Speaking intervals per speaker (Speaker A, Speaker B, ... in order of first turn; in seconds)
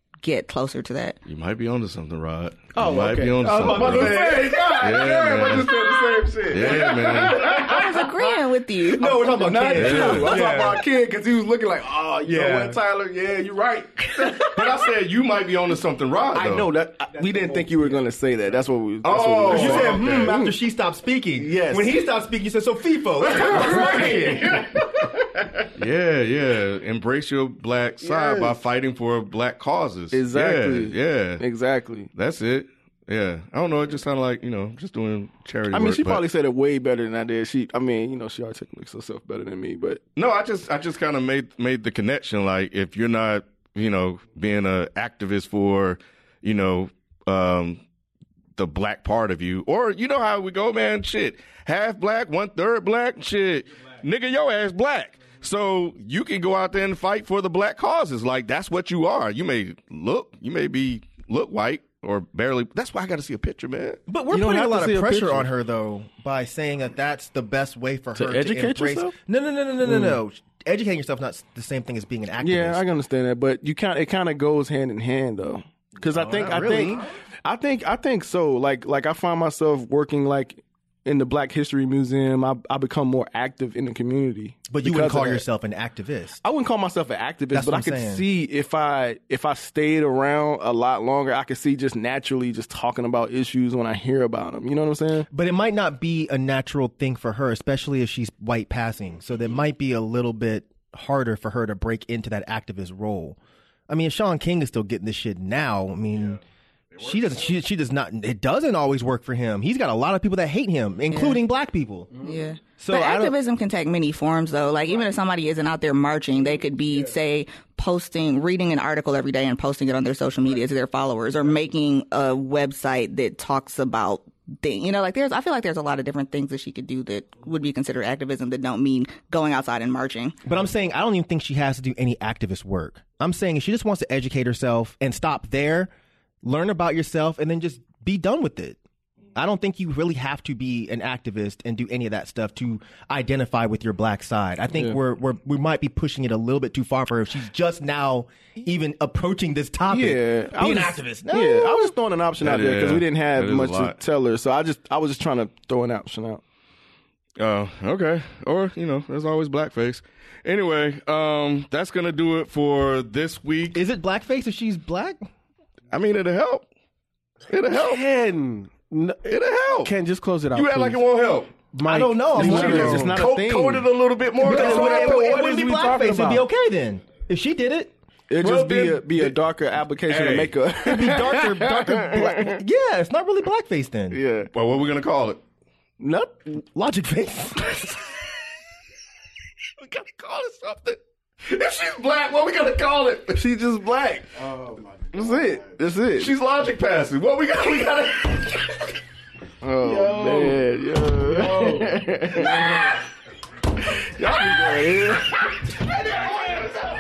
Speaker A: 0.2-1.2, 7.7-9.1, 111.1-111.4, 112.2-130.4
Speaker B: 1.2-5.7, 6.5-7.6, 9.7-10.5, 14.3-16.7, 19.0-20.3, 25.8-31.4, 32.1-36.2, 40.2-47.8, 48.6-64.0, 106.9-107.3, 152.4-154.0, 157.4-163.8, 165.9-166.7, 167.5-168.0, 169.2-169.9, 170.5-171.6, 172.4-175.4, 178.4-179.3, 180.1-180.6, 184.5-185.4, 189.8-193.4, 196.2-198.8
Speaker C: 2.8-8.3, 9.0-14.5, 16.3-20.6, 21.4-22.0, 23.4-24.3, 28.0-28.6, 30.1-32.1, 35.7-40.0, 64.3-65.5, 68.2-69.1, 69.8-70.2, 72.4-85.4, 86.4-95.3, 149.9-156.4, 172.3-175.6, 178.3-182.6, 184.1-184.5, 186.0-186.5, 193.3-194.3, 195.1-196.3, 199.6-202.9, 204.2-205.3
Speaker D: 3.5-4.8, 8.9-10.8, 12.3-12.8, 19.5-24.7, 64.1-72.8, 76.1-77.1, 84.7-86.4, 87.5-88.2, 95.3-103.4, 103.9-106.4, 107.0-113.4, 130.4-135.9, 136.4-138.8, 139.3-151.9, 163.7-165.2, 171.8-173.2, 174.4-177.9, 180.8-184.2, 186.7-187.8
Speaker E: 167.7-169.2, 169.8-171.0, 171.7-173.2, 174.6-176.3, 199.9-200.5, 201.4-201.8